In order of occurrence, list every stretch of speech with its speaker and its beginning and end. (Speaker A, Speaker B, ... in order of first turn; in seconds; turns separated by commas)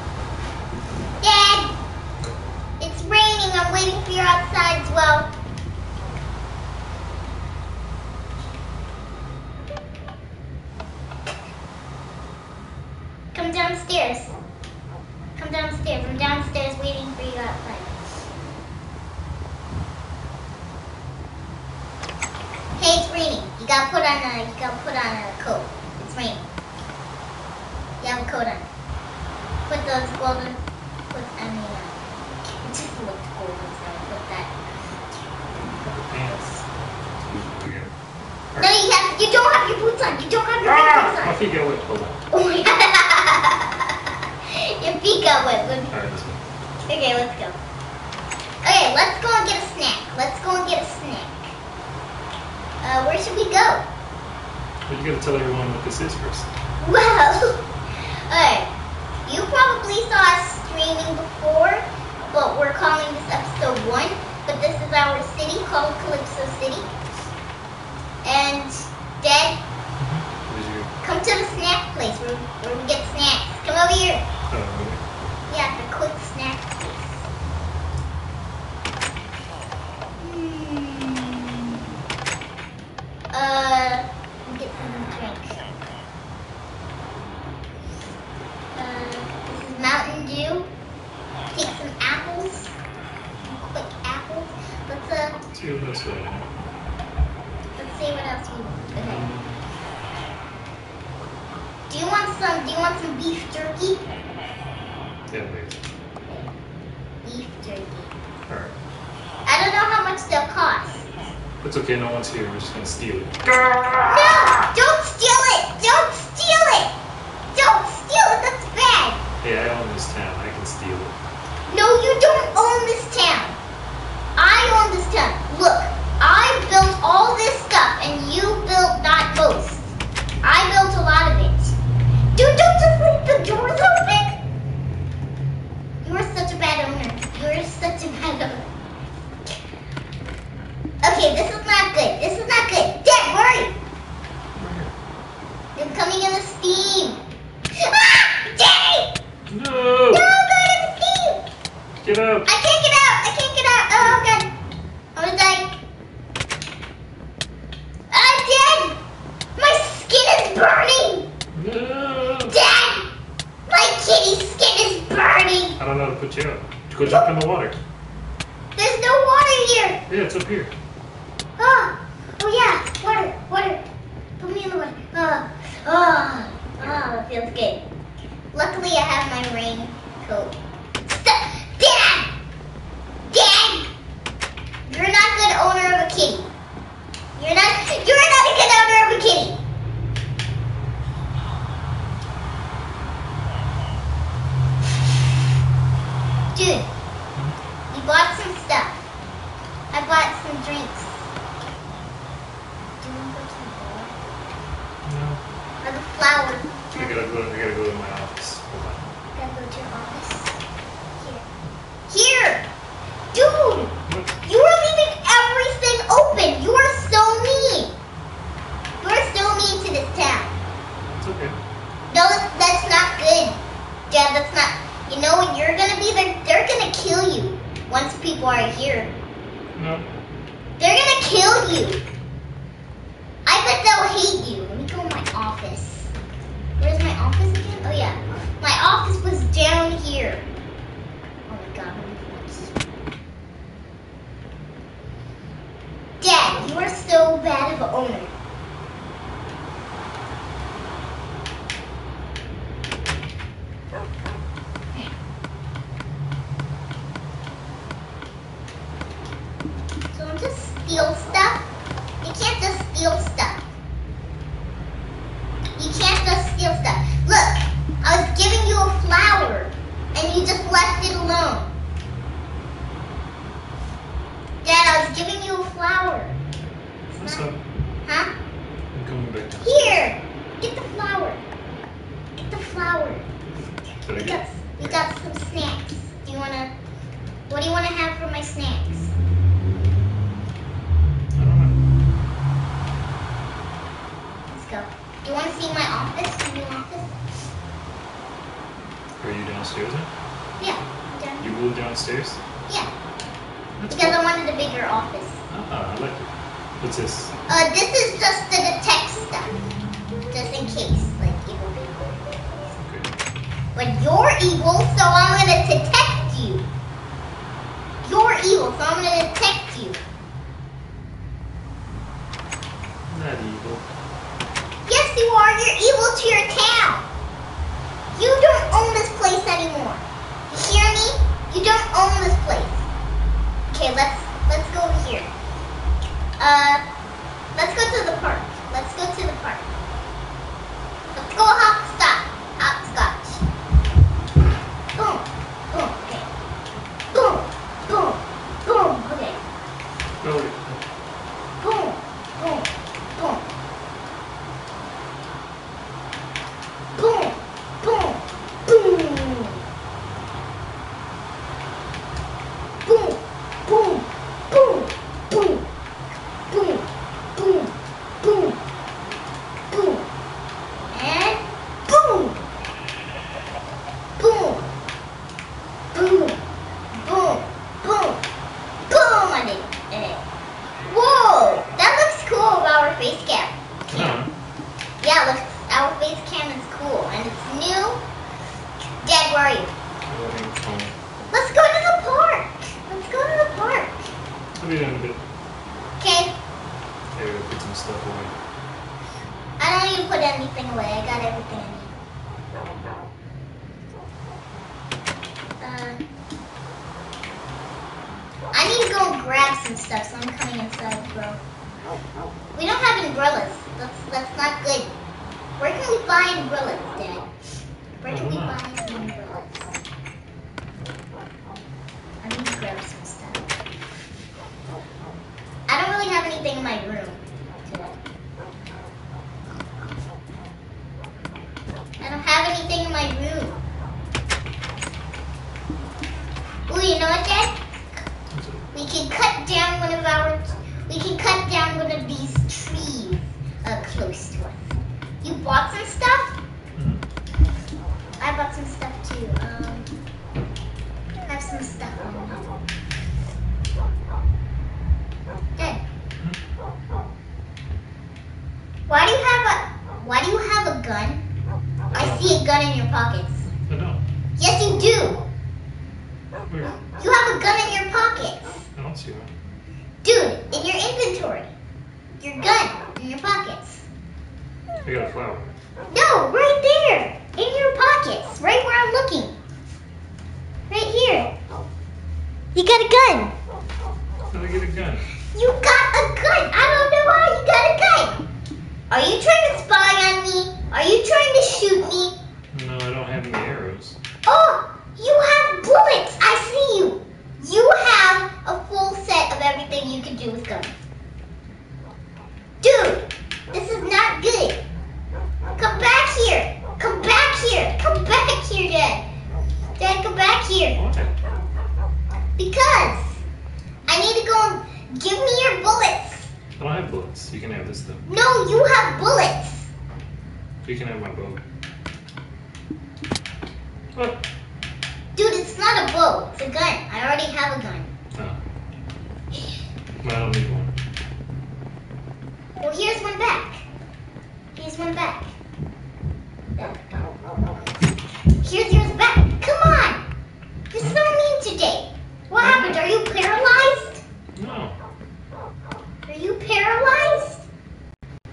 Speaker A: 1.2-1.8, Speaker A: 2.8-5.3, Speaker A: 13.3-14.3, Speaker A: 15.4-17.9, Speaker A: 22.8-26.4, Speaker A: 28.0-28.7, Speaker A: 29.7-34.5, Speaker B: 35.8-37.9, Speaker B: 38.5-38.8, Speaker A: 38.6-41.4, Speaker B: 40.6-42.2, Speaker A: 42.3-44.0, Speaker A: 44.5-46.0, Speaker B: 45.9-46.4, Speaker A: 46.9-47.6, Speaker A: 48.6-51.5, Speaker A: 52.8-53.8, Speaker B: 54.9-56.5, Speaker A: 56.8-57.6, Speaker A: 58.3-58.7, Speaker A: 59.2-66.9, Speaker A: 68.2-69.6, Speaker B: 70.0-70.9, Speaker A: 71.0-74.2, Speaker B: 74.5-75.0, Speaker A: 75.5-77.3, Speaker A: 80.2-81.6, Speaker A: 83.3-85.6, Speaker A: 88.7-90.7, Speaker A: 91.5-92.7, Speaker A: 93.5-95.4, Speaker B: 95.5-96.5, Speaker A: 97.8-99.3, Speaker B: 99.0-99.6, Speaker A: 101.9-104.0, Speaker B: 105.3-105.8, Speaker A: 106.2-106.5, Speaker A: 107.2-108.2, Speaker B: 108.5-108.7, Speaker A: 109.5-111.1, Speaker B: 111.6-113.5, Speaker A: 114.1-116.9, Speaker A: 117.5-119.2, Speaker B: 119.4-121.2, Speaker A: 121.7-123.6, Speaker A: 124.4-131.8, Speaker A: 132.3-134.4, Speaker A: 136.0-138.7, Speaker A: 141.0-143.8, Speaker B: 144.6-144.9, Speaker A: 145.8-147.2, Speaker A: 147.8-149.1, Speaker B: 149.5-150.3, Speaker A: 150.1-151.4, Speaker B: 152.0-152.5, Speaker A: 152.5-154.5, Speaker A: 155.2-155.8, Speaker A: 158.1-159.0, Speaker A: 159.6-161.3, Speaker B: 161.5-162.6, Speaker A: 162.5-163.1, Speaker A: 163.7-165.8, Speaker B: 165.8-167.8, Speaker A: 168.8-170.0, Speaker B: 170.1-170.7, Speaker A: 171.6-173.8, Speaker A: 174.4-177.8, Speaker A: 178.5-180.6, Speaker A: 181.1-182.3, Speaker A: 183.3-183.9, Speaker A: 184.8-186.5, Speaker A: 187.4-189.6, Speaker A: 196.5-196.9, Speaker A: 197.9-199.0, Speaker A: 199.9-201.2, Speaker A: 203.0-204.2, Speaker B: 205.0-205.4, Speaker A: 205.8-207.3, Speaker B: 206.9-209.1, Speaker A: 209.3-210.6, Speaker A: 211.2-211.4, Speaker A: 212.1-212.7, Speaker A: 213.3-218.0, Speaker B: 214.1-214.4, Speaker A: 219.0-220.6, Speaker B: 221.2-221.6, Speaker A: 222.1-229.1, Speaker B: 229.8-230.1, Speaker A: 230.8-232.0, Speaker A: 233.5-236.1, Speaker A: 236.8-240.4, Speaker A: 241.5-242.8, Speaker A: 246.2-248.3, Speaker A: 260.1-261.6, Speaker A: 262.2-263.7, Speaker A: 265.8-271.7, Speaker A: 274.6-276.3, Speaker A: 277.1-277.5, Speaker B: 277.1-277.6, Speaker A: 278.1-278.3, Speaker B: 278.9-280.1, Speaker A: 279.6-281.4, Speaker A: 282.4-283.3, Speaker B: 284.1-285.0, Speaker A: 284.1-286.7, Speaker A: 287.5-289.1, Speaker B: 291.3-291.8, Speaker A: 294.5-297.1, Speaker B: 299.2-300.1, Speaker A: 300.6-301.5, Speaker B: 301.4-302.4, Speaker B: 303.8-304.2, Speaker A: 303.9-305.4, Speaker B: 305.5-307.3, Speaker A: 307.5-309.5, Speaker A: 310.3-312.8, Speaker B: 312.8-313.1, Speaker A: 313.8-316.6, Speaker A: 318.0-320.0, Speaker B: 323.1-323.9, Speaker A: 324.9-327.1, Speaker A: 328.1-332.9, Speaker A: 333.7-335.3, Speaker A: 336.4-336.8, Speaker A: 337.6-339.7, Speaker A: 341.1-343.4, Speaker A: 344.9-346.3, Speaker A: 347.1-349.4, Speaker B: 350.2-350.8, Speaker A: 351.6-353.4, Speaker A: 356.9-359.6, Speaker A: 362.8-365.6, Speaker A: 366.5-368.6, Speaker A: 369.7-370.1, Speaker A: 370.9-372.4, Speaker A: 374.2-374.7, Speaker A: 375.9-376.4, Speaker A: 376.9-378.2, Speaker A: 378.9-380.2, Speaker A: 380.9-384.2, Speaker B: 383.9-384.3, Speaker A: 385.0-388.0, Speaker A: 389.0-389.7, Speaker B: 390.1-390.9, Speaker A: 391.3-394.1, Speaker B: 394.6-395.2, Speaker A: 396.0-396.4, Speaker B: 397.1-398.3, Speaker A: 399.6-401.9, Speaker A: 405.6-406.0, Speaker A: 408.5-411.4, Speaker A: 412.5-414.9, Speaker A: 415.6-417.3, Speaker A: 418.0-419.8, Speaker B: 418.1-418.6, Speaker A: 422.2-423.5, Speaker A: 425.7-428.0, Speaker A: 432.0-433.6, Speaker A: 436.7-437.6, Speaker B: 438.3-438.6, Speaker A: 438.7-446.4, Speaker B: 446.8-447.0, Speaker A: 448.2-449.9, Speaker A: 451.3-452.4, Speaker A: 458.9-461.2, Speaker A: 461.9-463.5, Speaker B: 461.9-462.4, Speaker B: 463.7-464.0, Speaker A: 464.4-465.2, Speaker B: 466.5-466.8, Speaker A: 467.0-468.7, Speaker B: 468.7-469.3, Speaker A: 470.0-471.5, Speaker A: 472.2-473.9, Speaker B: 474.8-475.5, Speaker A: 475.9-479.4, Speaker A: 480.7-481.4, Speaker A: 482.5-483.3, Speaker B: 484.3-485.1, Speaker A: 485.3-488.2, Speaker A: 488.9-492.1, Speaker B: 492.5-494.0, Speaker A: 494.2-500.7, Speaker A: 502.6-504.6, Speaker A: 505.6-509.1, Speaker A: 509.8-510.8, Speaker B: 510.8-511.1, Speaker A: 512.4-513.2, Speaker A: 513.9-516.3, Speaker B: 516.6-518.0, Speaker A: 518.1-519.7, Speaker B: 520.6-521.4, Speaker B: 524.0-524.2, Speaker A: 525.1-527.9, Speaker B: 530.0-530.8, Speaker A: 532.6-533.6, Speaker A: 534.6-535.3, Speaker A: 536.6-537.3, Speaker A: 538.4-540.0, Speaker A: 540.7-544.0, Speaker B: 542.4-542.9, Speaker B: 544.4-544.8, Speaker A: 546.1-547.5